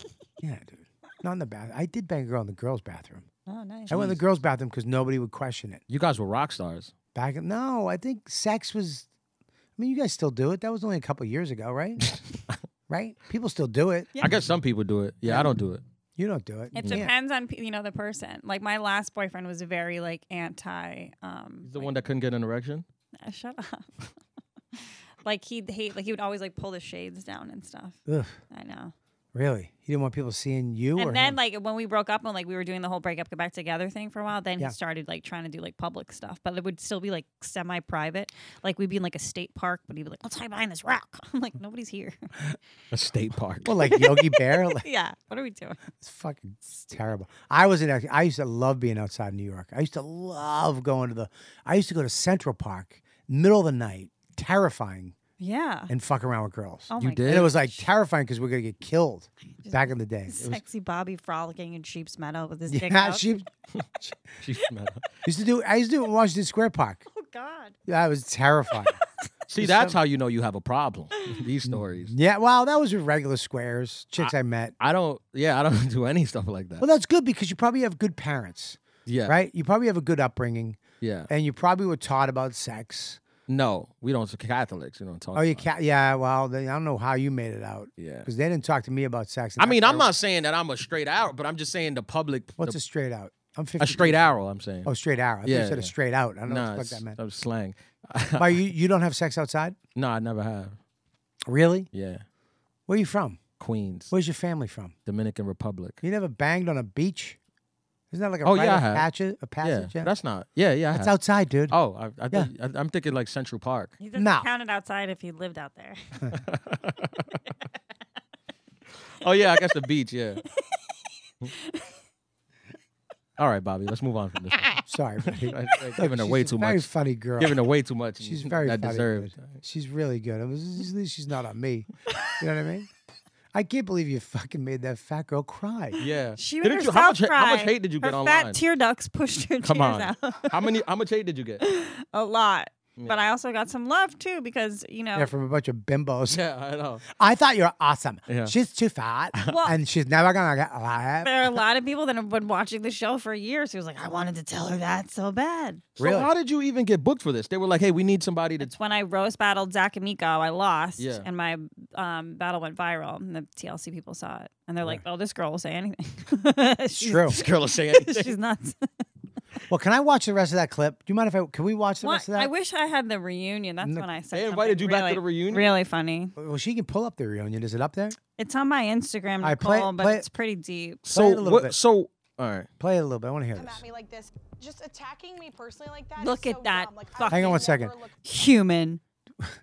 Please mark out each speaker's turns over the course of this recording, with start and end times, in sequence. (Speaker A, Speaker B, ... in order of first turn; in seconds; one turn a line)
Speaker A: 0.4-3.2
Speaker B: 3.5-4.2
Speaker A: 3.9-5.8
Speaker C: 5.9-6.9
Speaker A: 7.1-9.1
Speaker A: 9.8-12.1
Speaker C: 12.1-12.6
Speaker A: 12.9-14.1
Speaker C: 14.2-15.8
Speaker A: 15.2-15.5
Speaker A: 16.2-17.1
Speaker B: 16.8-22.0
Speaker C: 21.6-22.8
Speaker B: 23.2-24.1
Speaker B: 24.8-28.0
Speaker A: 28.1-28.4
Speaker B: 28.5-28.9
Speaker A: 29.3-31.4
Speaker B: 31.0-42.3
Speaker C: 42.9-43.7
Speaker A: 43.6-44.8
Speaker B: 43.9-45.8
Speaker A: 46.0-55.1
Speaker B: 55.4-55.9
Speaker A: 55.9-60.6
Speaker B: 56.9-57.8
Speaker C: 57.0-57.5
Speaker B: 59.6-63.2
Speaker A: 62.7-63.5
Speaker C: 63.7-65.0
Speaker A: 65.2-67.0
Speaker B: 67.1-67.7
Speaker A: 67.9-69.0
Speaker C: 69.5-72.1
Speaker A: 69.6-70.0
Speaker A: 71.7-74.7
Speaker C: 74.2-76.8
Speaker A: 76.8-83.2
Speaker C: 79.0-79.3
Speaker C: 81.0-81.3
Speaker C: 83.5-85.7
Speaker A: 85.3-90.1
Speaker C: 88.0-88.3
Speaker C: 89.6-92.8
Speaker A: 92.6-94.3
Speaker C: 93.8-94.9
Speaker A: 94.8-97.2
Speaker C: 95.4-95.9
Speaker C: 96.5-98.6
Speaker A: 98.4-99.8
Speaker C: 100.0-100.8
Speaker A: 101.5-101.9
Speaker C: 101.9-102.2
Speaker A: 102.9-103.4
Speaker C: 103.6-104.1
Speaker A: 104.1-104.9
Speaker C: 105.0-106.0
Speaker A: 106.0-107.4
Speaker A: 108.1-110.1
Speaker C: 108.4-109.1
Speaker C: 109.6-111.1
Speaker A: 110.9-111.7
Speaker C: 111.7-113.9
Speaker B: 114.0-116.0
Speaker A: 114.2-114.5
Speaker C: 116.3-117.2
Speaker C: 119.2-120.4
Speaker C: 123.4-126.9
Speaker A: 124.9-127.6
Speaker C: 127.4-129.6
Speaker A: 128.2-132.9
Speaker A: 133.5-136.0
Speaker C: 136.0-138.6
Speaker B: 136.4-140.5
Speaker C: 139.6-141.6
Speaker B: 141.6-145.3
Speaker A: 145.1-146.4
Speaker C: 146.3-147.0
Speaker A: 147.1-151.4
Speaker C: 148.3-148.5
Speaker B: 149.4-149.7
Speaker B: 151.2-155.8
Speaker C: 156.0-158.7
Speaker A: 156.0-156.3
Speaker B: 158.6-169.0
Speaker C: 161.0-161.2
Speaker A: 167.0-167.4
Speaker C: 167.3-168.3
Speaker A: 169.7-172.5
Speaker B: 172.0-176.3
Speaker C: 174.3-175.7
Speaker A: 176.4-178.2
Speaker B: 178.4-181.0
Speaker A: 179.4-180.2
Speaker C: 181.1-182.7
Speaker A: 181.1-181.8
Speaker A: 182.8-183.8
Speaker D: 183.5-188.2
Speaker B: 186.2-187.7
Speaker A: 187.3-187.9
Speaker B: 188.2-189.0